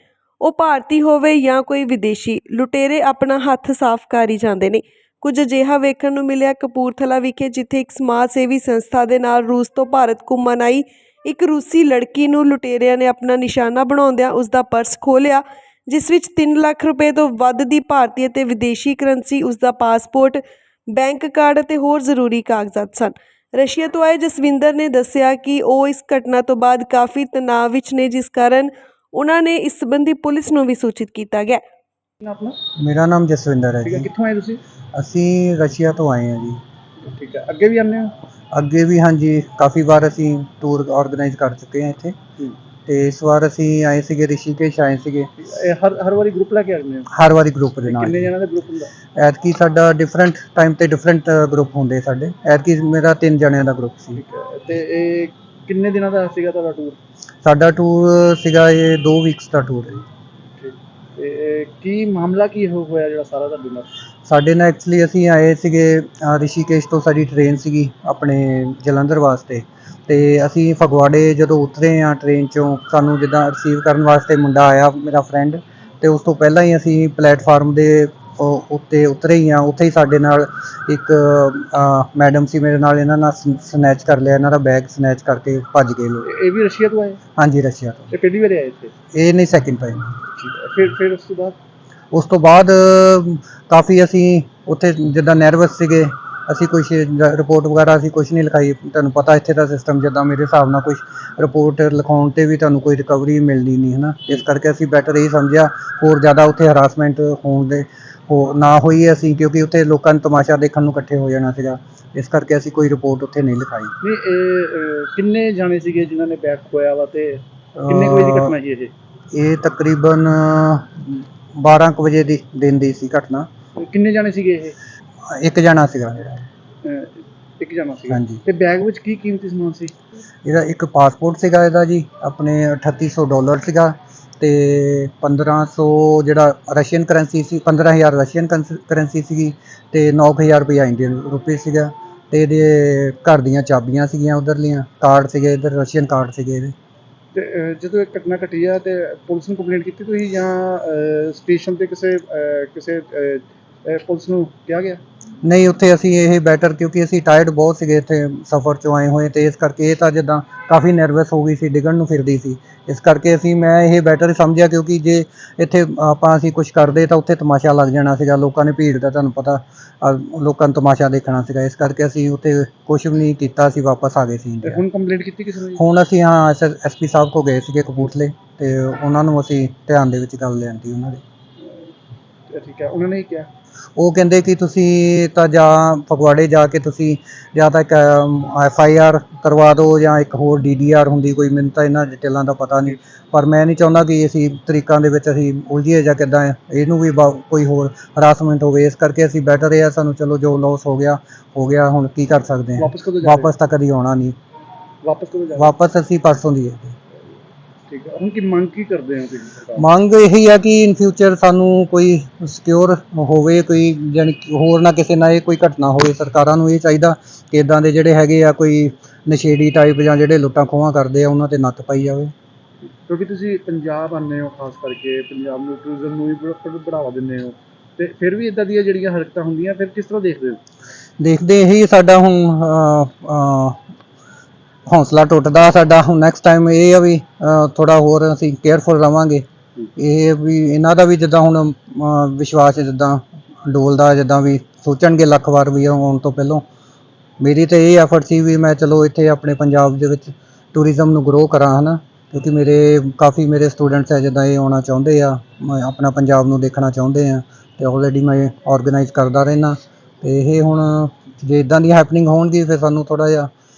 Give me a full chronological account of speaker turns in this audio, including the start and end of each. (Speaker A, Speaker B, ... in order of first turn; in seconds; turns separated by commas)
Speaker A: 0.4-31.6, Speaker B: 32.2-32.6, Speaker C: 32.8-34.1, Speaker B: 33.8-34.6, Speaker C: 34.9-36.6, Speaker B: 37.0-38.1, Speaker C: 38.5-42.1, Speaker C: 42.9-45.3, Speaker B: 45.4-47.1, Speaker C: 47.1-48.3, Speaker B: 47.9-48.9, Speaker C: 49.1-54.2, Speaker B: 54.2-57.0, Speaker C: 57.4-60.0, Speaker B: 60.6-63.9, Speaker C: 64.2-86.3, Speaker B: 86.2-87.2, Speaker C: 87.4-88.1, Speaker B: 88.1-88.9, Speaker C: 89.1-90.1, Speaker B: 90.3-91.6, Speaker C: 92.1-113.9, Speaker B: 114.0-118.9, Speaker C: 117.8-118.5, Speaker C: 119.3-123.5, Speaker B: 123.8-124.8, Speaker C: 125.2-126.5, Speaker B: 126.8-129.9, Speaker C: 128.1-128.4, Speaker C: 130.4-146.7, Speaker B: 147.3-155.0, Speaker C: 155.4-174.8, Speaker B: 174.6-175.8, Speaker C: 175.8-181.2, Speaker B: 181.6-181.9, Speaker B: 182.5-183.5, Speaker C: 183.9-204.3, Speaker B: 202.8-203.5, Speaker B: 205.0-205.7, Speaker C: 205.5-206.9, Speaker B: 207.9-209.9, Speaker C: 209.8-222.3, Speaker B: 223.1-230.6, Speaker C: 231.2-233.8, Speaker C: 234.9-239.4, Speaker C: 239.9-246.6, Speaker C: 247.4-263.5